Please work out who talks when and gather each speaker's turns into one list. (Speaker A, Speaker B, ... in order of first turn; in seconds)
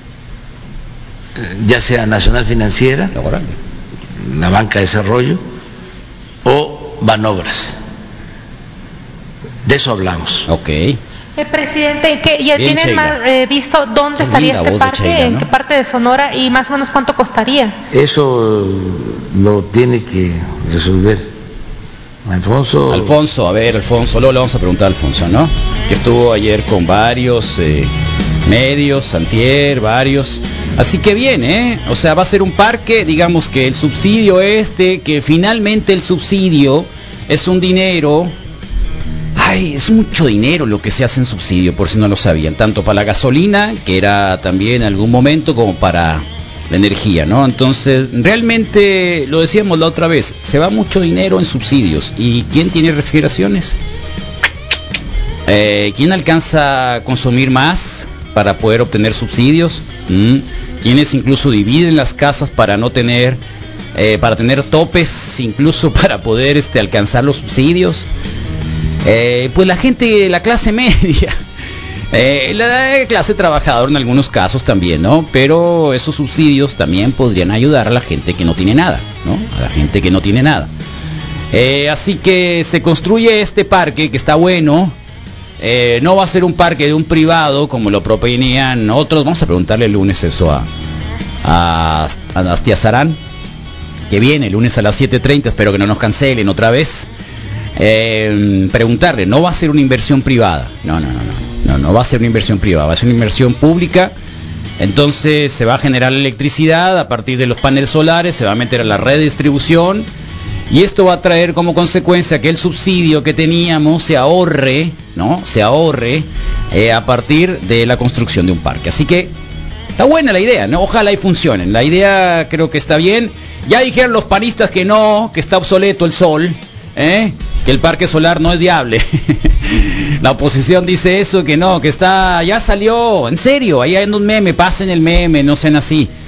Speaker A: 1.4-3.1, 4.2-5.4, 6.4-7.7, 9.6-10.5, 17.9-21.3, 22.3-23.1
Speaker B: 3.1-3.5, 10.5-11.0, 12.5-13.2, 14.2-15.5, 22.9-27.9, 28.4-38.3, 39.4-53.8, 55.5-63.4, 63.9-68.1, 69.0-71.3, 72.1-80.7, 81.5-84.9, 85.6-90.7, 91.4-93.2, 94.1-97.1, 97.8-104.1, 104.8-110.1, 110.7-119.3, 120.0-136.1
Speaker C: 11.4-17.7